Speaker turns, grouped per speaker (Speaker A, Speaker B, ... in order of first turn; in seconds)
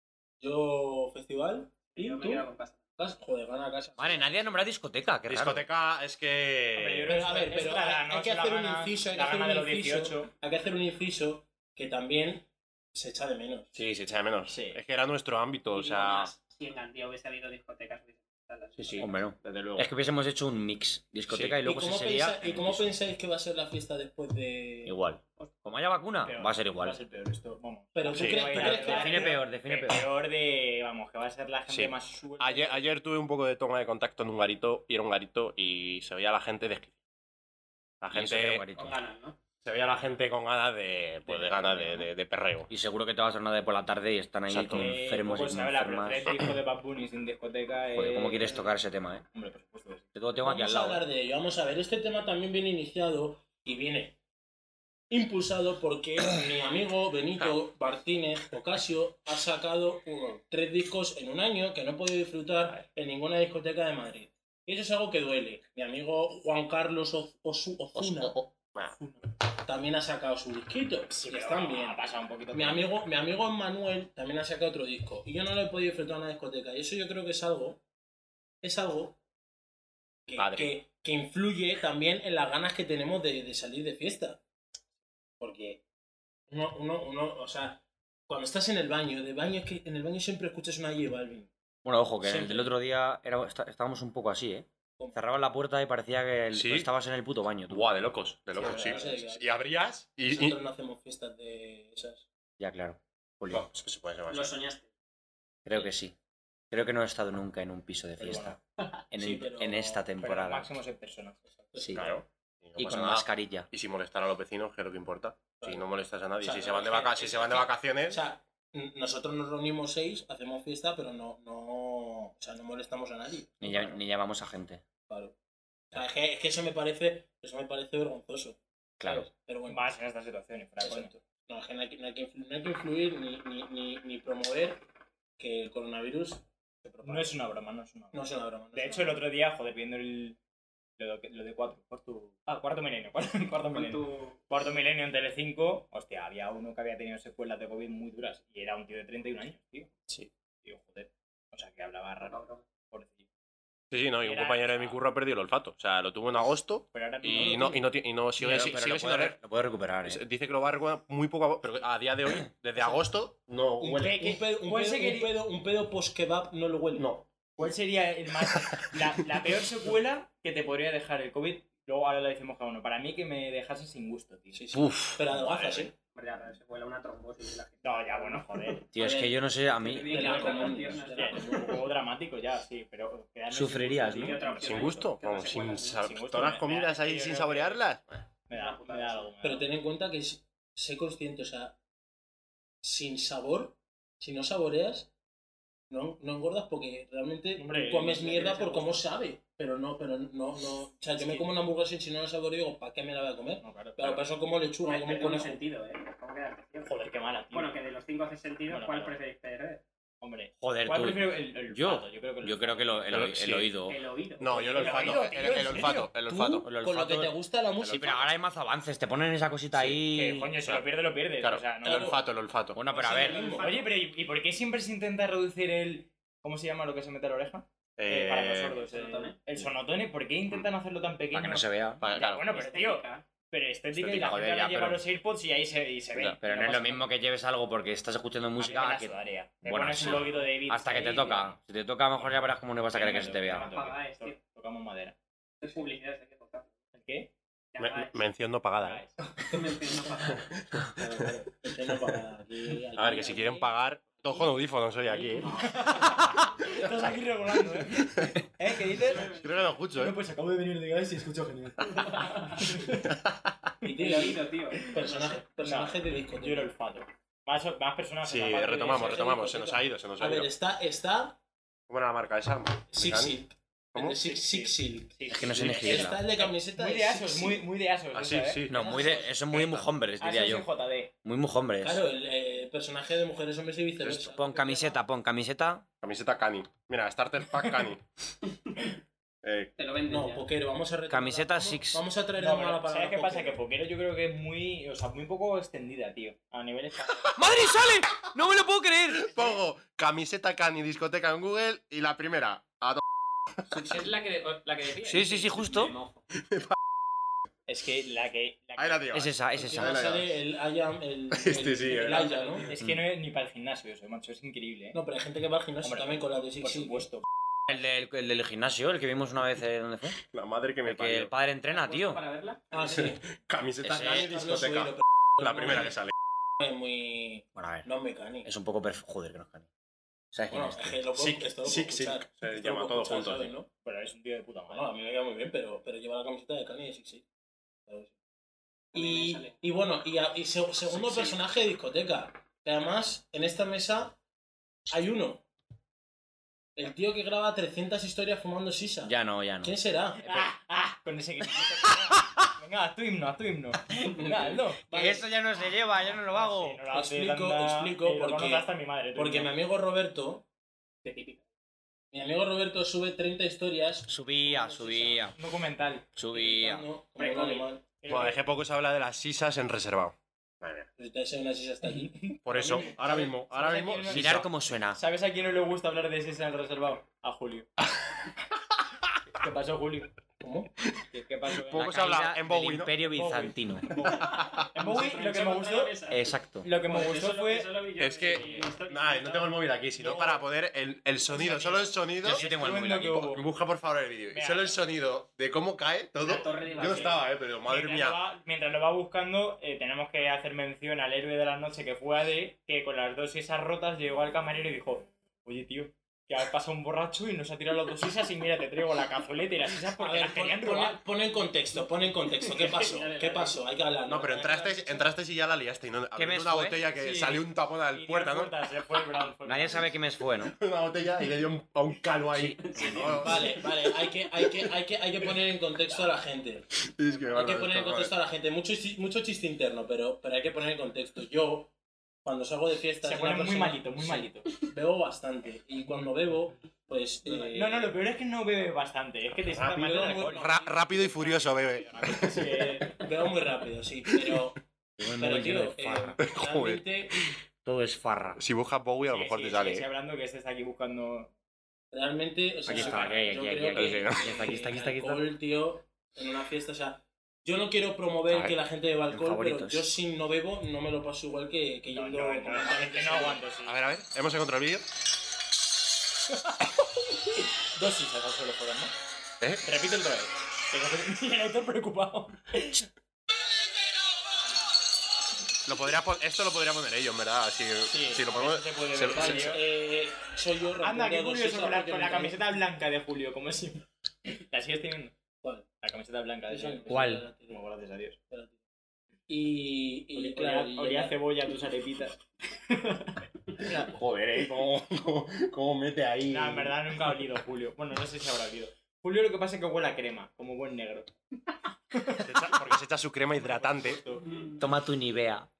Speaker A: 0.4-2.5, 3.0-4.4, 7.1-13.8, 21.6-25.0, 27.9-29.4, 50.4-54.2, 55.1-68.5, 69.6-77.8, 78.6-79.2, 80.3-84.4, 85.4-85.8, 86.5-91.5, 92.2-92.7, 98.5-99.5, 100.3-102.2, 109.1-110.0, 111.6-112.1, 115.6-115.9, 116.4-117.5, 118.1-124.0, 125.1-125.3, 125.9-129.8, 130.8-134.8, 135.4-137.4, 138.1-139.2, 163.8-167.1, 174.5-175.9, 178.9-181.9, 189.4-191.8, 192.8-195.1, 195.9-205.6, 214.8-218.3, 221.8-222.2, 222.9-223.8, 251.0-253.7, 263.8-266.7, 268.9-271.4, 272.9-277.6, 278.7-279.3, 281.8-285.0, 290.1-293.6, 309.6-312.7, 314.9-317.1, 322.7-323.2, 324.3-325.9, 326.6-328.5, 330.5-333.7, 334.7-337.2, 337.9-338.1, 338.9-344.2, 344.9-345.4, 346.8-350.2, 354.0-355.3, 356.9-360.4, 362.1-365.2, 366.3-367.8, 371.0-373.1, 380.4-380.7, 410.0-415.1, 423.1-426.7, 427.3-437.9, 439.5-440.4, 442.9-447.2, 451.9-463.4, 479.1-482.6, 486.5-487.6, 489.3-491.2
Speaker B: 1.9-2.8, 15.7-19.1, 38.8-39.4, 104.3-104.9, 117.3-117.6, 143.7-144.4, 152.2-152.6, 176.1-178.6, 179.8-181.9, 184.1-186.2, 188.5-189.3, 204.8-209.8, 213.8-215.2, 223.1-223.9, 228.8-229.4, 232.4-233.2, 243.5-244.4, 245.6-246.7, 247.7-248.2, 249.4-250.5, 255.4-255.8, 259.0-259.4, 262.0-262.5, 263.9-264.9, 289.8-290.5, 303.7-306.2, 311.9-312.7, 321.7-323.0, 338.9-339.6, 361.0-361.4, 367.2-367.6, 384.2-389.6, 396.2-397.3, 412.3-414.5, 422.6-423.5
Speaker C: 4.0-5.6, 18.9-22.9, 24.9-27.0, 28.5-30.1, 38.1-39.0, 42.7-46.4, 47.9-49.2, 50.1-51.0, 91.8-97.8, 102.6-103.7, 105.6-106.1, 106.7-108.6, 109.1-110.7, 111.8-112.0, 112.8-113.7, 123.6-124.8, 129.0-129.3, 158.4-160.2, 174.7-175.2, 178.9-180.4, 183.5-184.4, 210.6-214.0, 216.6-217.3, 217.9-220.5, 222.7-223.4, 231.3-232.0, 234.1-235.0, 236.4-243.9, 275.3-276.2, 278.7-280.7, 281.2-282.0, 284.2-285.9, 291.1-292.0, 297.4-299.4, 305.0-305.9, 309.1-310.1, 317.7-320.2, 320.9-322.2, 323.8-324.3, 327.5-327.9, 328.4-329.6, 330.3-331.0, 349.0-350.5, 351.6-352.2, 354.9-356.8, 364.1-365.4, 366.1-366.9, 374.1-375.0, 381.7-384.1, 386.1-386.7, 392.2-393.2, 416.1-416.8, 419.4-420.6, 422.3-423.1, 445.0-446.2, 447.6-448.4, 452.6-455.3, 459.1-459.9, 486.9-487.3, 504.6-505.5
Speaker D: 5.3-7.1, 13.7-16.3, 18.9-19.9, 21.3-21.6, 28.1-28.6, 31.7-36.9, 38.0-38.6, 39.6-42.7, 44.5-45.0, 68.0-69.0, 80.4-80.7, 96.5-96.9, 97.7-100.6, 103.5-104.6, 111.9-118.2, 153.9-159.4, 160.0-164.3, 166.9-167.3, 175.3-175.9, 184.6-188.2, 213.1-213.7, 214.4-216.7, 217.8-218.2, 219.7-220.0, 221.4-222.8, 228.0-228.8, 232.0-232.6, 247.8-249.0, 250.3-251.0, 252.9-255.6, 257.9-258.4, 259.1-260.2, 262.9-263.7, 268.2-270.5, 271.9-273.4, 273.9-274.2, 275.4-276.0, 278.1-279.9, 284.0-284.3, 286.0-288.0, 289.4-289.7, 297.4-298.2, 299.1-303.0, 306.4-306.7, 308.8-310.4, 311.3-312.3, 320.2-321.3, 323.0-326.1, 331.1-333.5, 340.9-341.4, 368.1-370.9, 372.4-374.5, 381.6-383.0, 384.3-384.6, 388.0-392.5, 393.1-398.2, 414.1-418.5, 420.4-424.7, 426.8-428.1, 440.2-442.8, 444.1-444.5, 446.2-447.3, 448.4-449.9, 453.0-454.5, 458.3-458.6, 463.6-464.9, 475.6-479.6, 493.8-496.8, 502.2-504.0
Speaker E: 6.7-10.3, 14.5-14.8, 26.2-32.8, 41.2-42.1, 44.7-48.7, 49.3-50.1, 71.1-73.0, 98.7-99.0, 108.2-108.5, 110.2-111.4, 129.1-131.1, 137.0-138.2, 138.7-140.4, 141.0-149.9, 150.6-152.4, 152.9-153.2, 154.2-155.0, 156.9-157.9, 163.9-165.4, 167.6-174.6, 177.8-178.9, 180.1-185.0, 186.0-187.8, 188.5-189.7, 197.6-199.0, 201.2-201.5, 203.6-204.2, 206.8-207.8, 208.7-209.2, 210.2-213.2, 214.7-216.1, 220.0-222.2, 223.0-237.1, 238.6-241.6, 242.9-245.1, 246.9-247.3, 248.8-249.2, 255.1-259.4, 259.9-263.2, 264.9-269.3, 274.2-278.6, 280.2-281.1, 292.4-297.3, 307.7-309.1, 312.0-315.0, 315.8-317.2, 333.8-334.9, 350.2-354.9, 356.0-359.6, 365.2-366.1, 367.2-368.4, 371.9-377.7, 379.3-380.1, 381.1-382.0, 383.0-385.9, 386.6-387.7, 388.4-388.6, 390.0-390.4, 391.3-393.4, 394.3-394.8, 396.7-411.0, 416.9-419.9, 433.0-434.5, 437.2-443.0, 449.0-451.3, 452.7-453.3, 461.9-463.8, 466.3-468.9, 469.6-472.9, 477.9-479.6, 480.8-485.1, 485.8-488.2, 490.1-493.9, 496.3-501.1, 501.9-502.6, 503.3-504.4